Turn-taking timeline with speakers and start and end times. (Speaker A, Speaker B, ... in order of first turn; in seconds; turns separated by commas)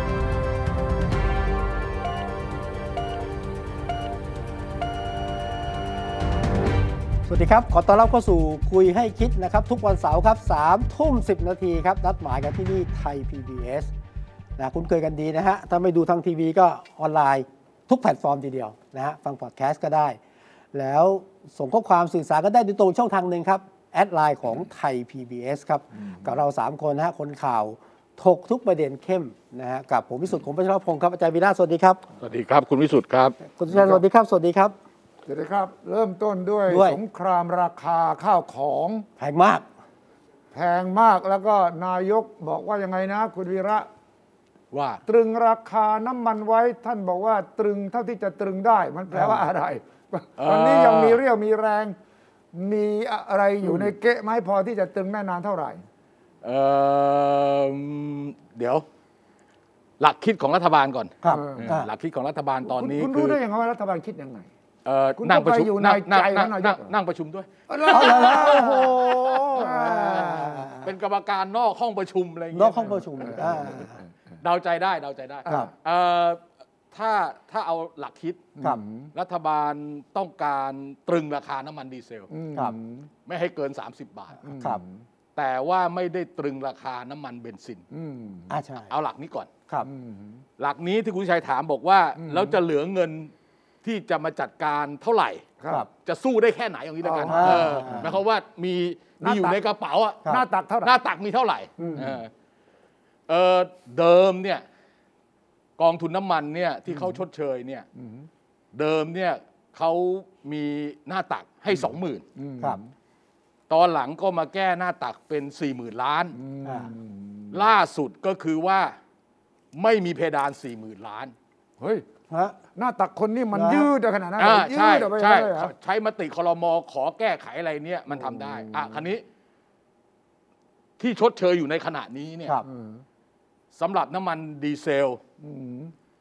Speaker A: 7.3-13.9, Speaker A: 14.6-20.2, Speaker A: 20.7-32.0, Speaker B: 32.2-33.4, Speaker A: 33.4-34.8, Speaker C: 33.7-34.0, Speaker C: 35.3-39.1, Speaker A: 36.7-37.0, Speaker A: 39.2-39.6, Speaker C: 40.5-43.9, Speaker B: 44.7-45.0, Speaker C: 45.1-52.0, Speaker A: 49.1-49.4, Speaker B: 50.4-51.2, Speaker C: 52.5-55.8, Speaker B: 56.4-58.9, Speaker B: 60.0-63.4, Speaker A: 61.2-61.9, Speaker C: 61.3-61.7, Speaker C: 62.6-64.5, Speaker B: 64.8-69.6, Speaker C: 65.2-66.9, Speaker C: 67.7-70.7, Speaker A: 67.8-70.9, Speaker B: 70.8-73.4, Speaker A: 72.5-74.0, Speaker C: 73.2-73.8, Speaker B: 74.4-78.5, Speaker C: 78.6-79.1, Speaker B: 79.1-82.3, Speaker C: 82.3-83.1, Speaker B: 83.3-84.4, Speaker C: 84.4-84.9, Speaker A: 84.5-84.8, Speaker B: 85.4-87.8, Speaker C: 87.9-88.5, Speaker A: 88.5-88.9, Speaker B: 88.9-89.5, Speaker C: 89.9-90.4, Speaker B: 90.6-93.3, Speaker C: 92.2-92.6, Speaker B: 93.8-95.5, Speaker B: 96.0-100.3, Speaker C: 97.0-97.9, Speaker A: 97.3-98.1, Speaker C: 99.2-99.6, Speaker C: 100.3-101.0, Speaker B: 100.8-102.3, Speaker C: 101.8-102.2, Speaker B: 103.3-104.6, Speaker B: 105.8-107.9, Speaker C: 108.0-108.3, Speaker B: 108.7-112.2, Speaker C: 112.4-112.9, Speaker B: 113.7-116.4, Speaker C: 116.4-117.6, Speaker A: 116.6-116.9, Speaker B: 117.5-119.0, Speaker B: 119.7-121.3, Speaker C: 121.8-122.0, Speaker A: 122.3-122.6, Speaker C: 122.8-125.7, Speaker A: 123.5-123.9, Speaker B: 124.4-129.2, Speaker C: 128.1-129.0, Speaker B: 131.0-132.6, Speaker C: 132.7-133.0, Speaker B: 133.7-135.2, Speaker C: 135.4-135.9